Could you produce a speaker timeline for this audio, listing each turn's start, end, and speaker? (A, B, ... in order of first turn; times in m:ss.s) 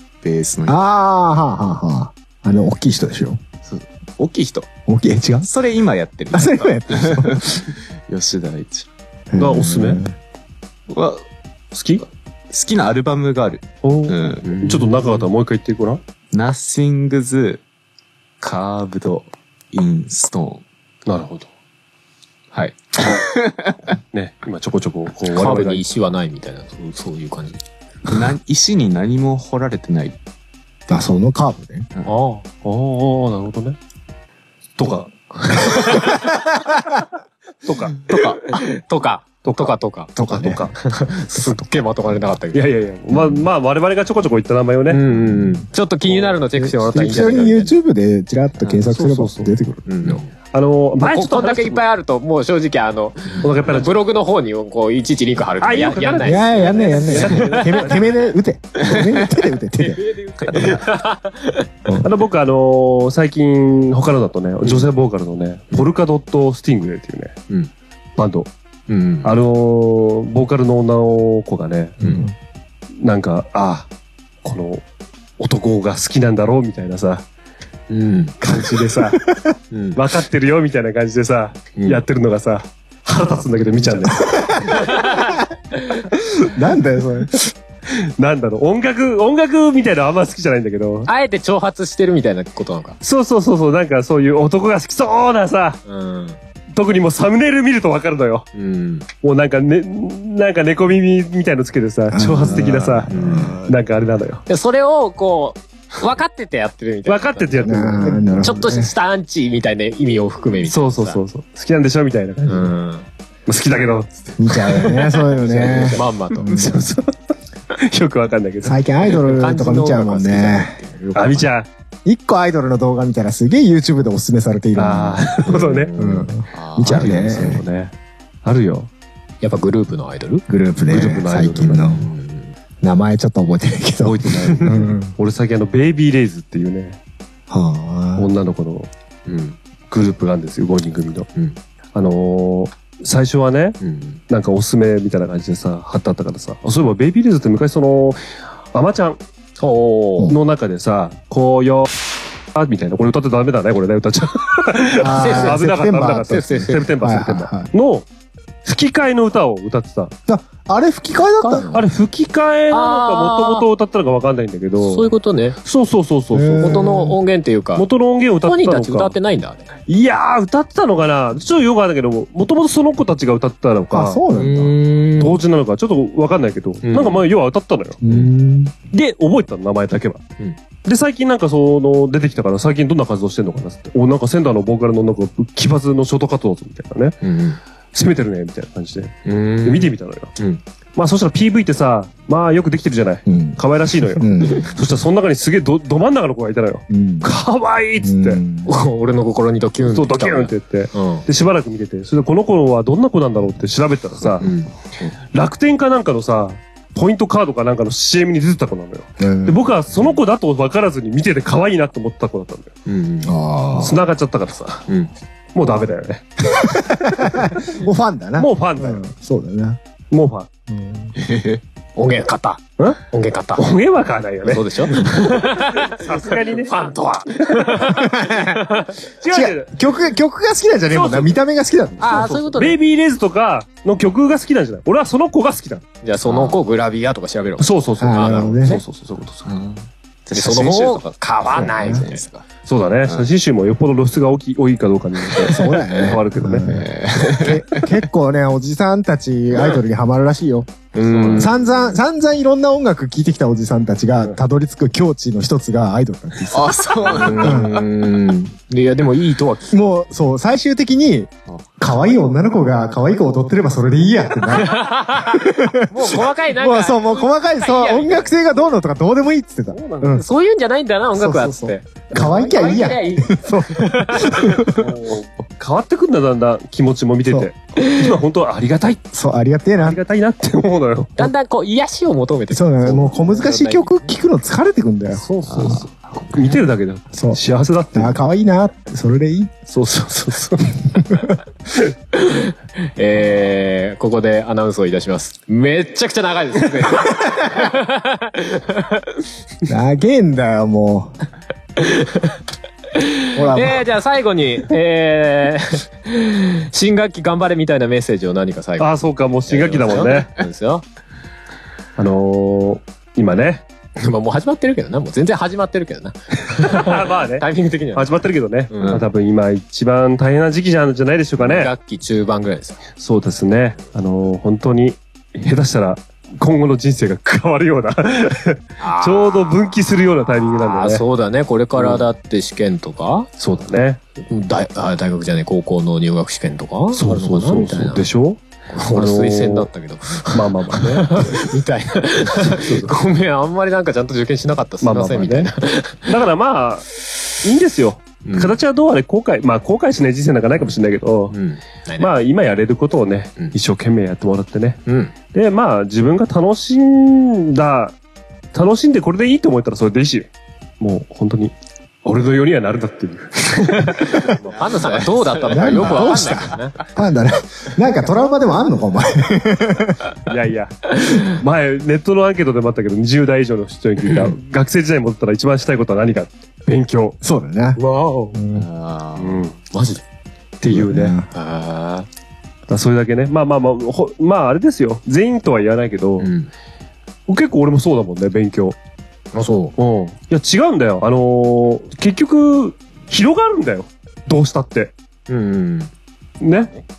0:00.2-0:00.8 A
0:00.7-0:03.4 B
0:03.6-0:04.7 A
0:04.9-0:05.5 B
0:05.4-0:08.9 A
0:06.3-0:07.7 B
0:09.3-0:10.2 B
0:09.4-0:10.0 C
0:10.9-0:11.2 A
0:11.7-0:12.0 C
0:12.5-0:14.6 A
0:13.8-0:16.0 C
0:14.4-0:15.0 D
0:16.3-0:17.6 A
0:18.4-0:20.6 A
0:21.1-0:21.5 C
0:22.6-0:23.8 A
0:24.1-0:25.8 C
0:25.3-0:27.6 D
0:28.1-0:30.2 A
0:30.9-0:31.9 B
0:32.1-0:32.4 D
0:32.6-0:33.8 C
0:34.8-0:36.1 C
0:35.6-0:36.0 D
0:36.4-0:36.8 B
0:37.6-0:38.0 C
0:38.1-0:40.1 D
0:38.1-0:38.4 A
0:39.4-0:39.7 C
0:40.2-0:40.7 B
0:40.3-0:40.8 C
0:40.8-0:42.7 D
0:42.5-0:45.0 C
0:43.1-0:43.4 B
0:44.9-0:47.7 D
0:45.1-0:45.7 B
0:46.1-0:47.4 C
0:46.6-0:49.9 B
0:48.8-0:49.5 C
0:49.9-0:50.3 D
0:50.5-0:51.8 C
0:51.0-0:58.0 D
0:53.4-0:54.0 C
0:55.6-0:58.3 C
0:56.2-1:00.8 B
0:58.8-1:01.7 D
1:02.0-1:07.4 C
1:08.2-1:08.5 C
1:08.9-1:09.4 D
1:09.2-1:12.1 C
1:12.0-1:12.3 D
1:12.0-1:12.3 B
1:13.0-1:13.9 C
1:14.4-1:14.8 C
1:15.4-1:17.2 C
1:17.9-1:18.4 D
1:18.4-1:19.2 C
1:19.7-1:20.0 D
1:20.0-1:24.6 C
1:21.8-1:22.0 D
1:23.7-1:24.1 D
1:24.2-1:24.7 B
1:24.6-1:25.8 D
1:26.1-1:27.4 B
1:27.9-1:31.1 C
1:31.1-1:33.0 D
1:33.0-1:35.8 C
1:35.9-1:36.4 D
1:36.7-1:38.5 C
1:38.6-1:39.1 D
1:39.2-1:44.4 C
1:42.1-1:43.8 B
1:42.5-1:43.6 D
1:44.5-1:51.2 D
1:47.1-1:48.4 C
1:47.6-1:48.9 B
1:50.7-1:52.7 C
1:52.5-1:53.1 D
1:53.5-1:55.9 C
1:54.4-1:56.9 B
1:55.4-1:56.9 D
1:56.3-1:56.7 A
1:56.6-1:57.1 C
1:57.7-1:58.8 C
1:58.6-2:01.5 B
1:59.1-2:01.0 D
2:01.2-2:01.7 C
2:02.0-2:07.6 B
2:04.8-2:05.9 C
2:05.5-2:06.3 D
2:06.5-2:07.6 A
2:06.8-2:07.9 C
2:08.4-2:08.9 C
2:09.4-2:10.4 D
2:10.5-2:12.0 B
2:10.9-2:12.0 C
2:11.7-2:12.5 D
2:12.8-2:15.2 B
2:14.0-2:17.0 C
2:14.4-2:14.9 D
2:17.5-2:18.3 B
2:18.2-2:18.9 C
2:19.3-2:19.6 D
2:19.9-2:21.3 C
2:21.9-2:23.8 C
2:23.8-2:24.2 D
2:24.3-2:29.2 C
2:29.6-2:30.3 D
2:30.3-2:31.9 C
2:32.5-2:38.1 C
2:35.0-2:37.7 B
2:35.2-2:36.8 D
2:38.6-2:40.1 C
2:40.3-2:41.8 B
2:41.4-2:41.8 D
2:41.7-2:47.1 C
2:42.7-2:43.7 D
2:44.8-2:45.6 D
2:46.3-2:47.2 B
2:46.6-2:47.9 D
2:47.8-2:49.1 C
2:48.4-2:49.7 D
2:49.9-2:54.2 C
2:53.9-2:54.8 B
2:54.3-2:55.4 D
2:55.2-2:58.0 C
2:56.8-2:57.3 D
2:58.0-2:58.7 B
2:58.9-3:00.2 C
3:00.8-3:07.2 C
3:07.2-3:07.6 D
3:07.9-3:10.3 C
3:09.2-3:10.6 D
3:11.0-3:18.4 C
3:13.3-3:14.8 B
3:16.9-3:17.4 B
3:18.0-3:18.7 B
3:18.7-3:21.3 D
3:19.8-3:24.5 C
3:24.4-3:24.7 D
3:25.3-3:32.7 C
3:29.2-3:29.6 B
3:32.9-3:33.3 D
3:33.2-3:34.0 B
3:33.7-3:34.9 C
3:35.6-3:36.4 C
3:36.5-3:39.8 B
3:38.4-3:39.0 C
3:40.1-3:40.5 C
3:40.7-3:41.2 B
3:41.2-3:41.6 A
3:42.0-3:43.7 D
3:43.6-3:48.0 C
3:44.4-3:49.0 D
3:47.9-3:48.6 B
3:49.1-3:49.8 C
3:49.3-3:52.3 B
3:50.9-3:51.4 C
3:52.0-3:52.8 D
3:52.0-3:55.8 C
3:56.0-3:58.8 D
3:56.3-3:56.6 A
3:57.6-3:59.6 C
3:58.0-3:58.8 B
3:59.4-4:02.5 A
4:00.3-4:02.2 D
4:01.5-4:02.0 B
4:02.7-4:06.7 C
4:03.0-4:03.3 A
4:05.4-4:10.7 B
4:06.6-4:08.0 A
4:10.9-4:11.6 D
4:11.0-4:12.0 A
4:11.4-4:17.8 B
4:16.5-4:17.8 A
4:17.2-4:19.8 D
4:19.7-4:30.2 B
4:24.6-4:28.4 D
4:29.7-4:30.2 C
4:30.2-4:34.5 D
4:31.2-4:34.9 B
4:34.8-4:39.0 C
4:37.8-4:38.1 D
4:39.1-4:40.0 B
4:39.8-4:41.3 C
4:41.2-4:44.1 D
4:42.5-4:45.2 B
4:45.1-4:45.9 D
4:45.5-4:46.4 A
4:45.6-4:48.2 C
4:47.1-4:47.4 B
4:47.9-4:49.6 B
4:49.7-4:50.7 C
4:50.8-4:51.4 B
4:52.1-4:59.0 D
4:59.7-5:01.2 B
5:01.8-5:02.4 D
5:02.9-5:08.9 D
5:03.3-5:03.9 B
5:08.8-5:10.3 C
5:09.5-5:10.8 D
5:12.0-5:13.6 C
5:14.0-5:18.2 D
5:16.6-5:21.7 C
5:18.7-5:19.0 D
5:18.8-5:19.0 A
5:21.4-5:22.8 D
5:23.0-5:31.0 C
5:28.8-5:29.7 D
5:30.6-5:33.3 D
5:31.8-5:32.0 C
5:33.4-5:34.0 C
5:34.2-5:38.0 D
5:36.9-5:38.4 C
5:38.7-5:46.1 D
5:38.9-5:39.7 C
5:40.3-5:41.4 C
5:42.4-5:42.9 C
5:44.8-5:45.5 C
5:46.0-5:46.9 C
5:47.4-5:51.4 C
5:48.2-5:48.6 D
5:51.3-5:52.1 D
5:52.0-5:58.0 C
5:54.9-5:55.1 D
5:58.5-6:00.3 C
6:00.8-6:01.5 C
6:02.0-6:06.1 C
6:03.8-6:06.8 D
6:05.5-6:10.1 B
6:10.3-6:17.2 C
6:14.1-6:14.3 D
6:17.2-6:17.8 B
6:17.8-6:18.4 D
6:18.3-6:18.7 B
6:18.5-6:19.5 A
6:19.2-6:19.6 C
6:19.7-6:20.0 D
6:20.6-6:21.2 C
6:20.6-6:21.3 B
6:21.3-6:22.1 D
6:22.7-6:26.3 C
6:26.2-6:26.5 D
6:27.3-6:28.8 C
6:29.3-6:29.7 D
6:29.8-6:34.9 C
6:35.3-6:35.9 D
6:36.4-6:36.7 C